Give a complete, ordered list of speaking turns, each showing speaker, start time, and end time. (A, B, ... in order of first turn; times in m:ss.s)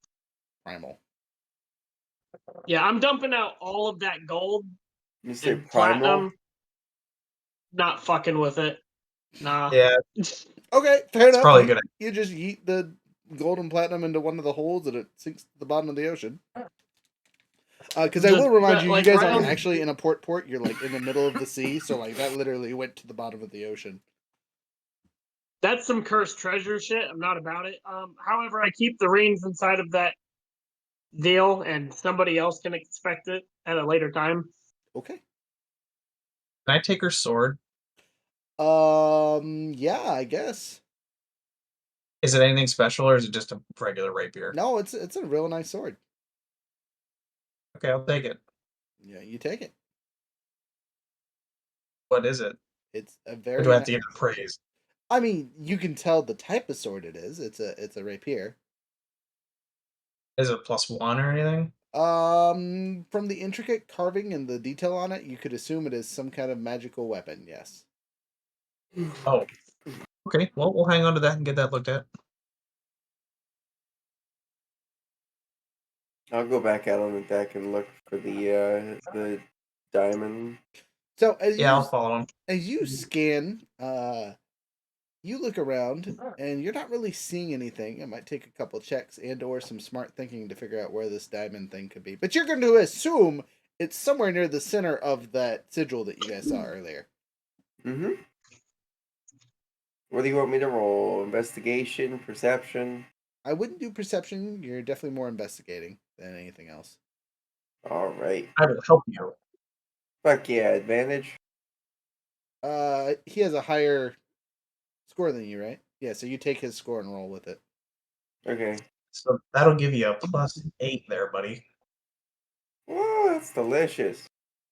0:00.6-0:01.0 A
0:02.7-0:04.7 B
0:05.2-0:06.3 C
0:05.4-0:06.3 B
0:07.7-0:08.8 B
0:09.4-0:10.4 B
0:09.7-0:10.0 D
0:10.7-0:16.4 A
0:11.3-0:11.8 D
0:18.0-0:24.0 A
0:18.2-0:19.7 B
0:25.6-0:30.2 B
0:31.1-0:34.5 B
0:34.9-0:35.2 A
0:36.7-0:37.6 D
0:38.6-0:40.8 A
0:42.2-0:44.5 D
0:44.5-0:46.0 A
0:47.7-0:48.4 D
0:49.0-0:49.7 A
0:52.1-0:52.6 D
0:52.9-0:54.0 A
0:53.6-0:54.6 D
0:55.1-0:58.6 A
1:00.4-1:01.7 D
1:01.9-1:07.8 A
1:10.2-1:12.0 D
1:16.3-1:20.6 C
1:21.2-1:21.9 A
1:21.6-1:22.3 D
1:22.5-1:24.3 A
1:25.2-1:37.1 A
1:37.8-1:38.2 C
1:40.1-1:43.0 C
1:43.4-1:47.0 A
1:47.8-1:48.5 C
1:48.6-1:49.4 D
1:50.2-1:51.4 C
1:52.6-1:54.2 A
1:55.1-1:57.6 A
1:58.4-1:58.8 C
1:59.1-2:01.6 D
2:02.9-2:04.3 C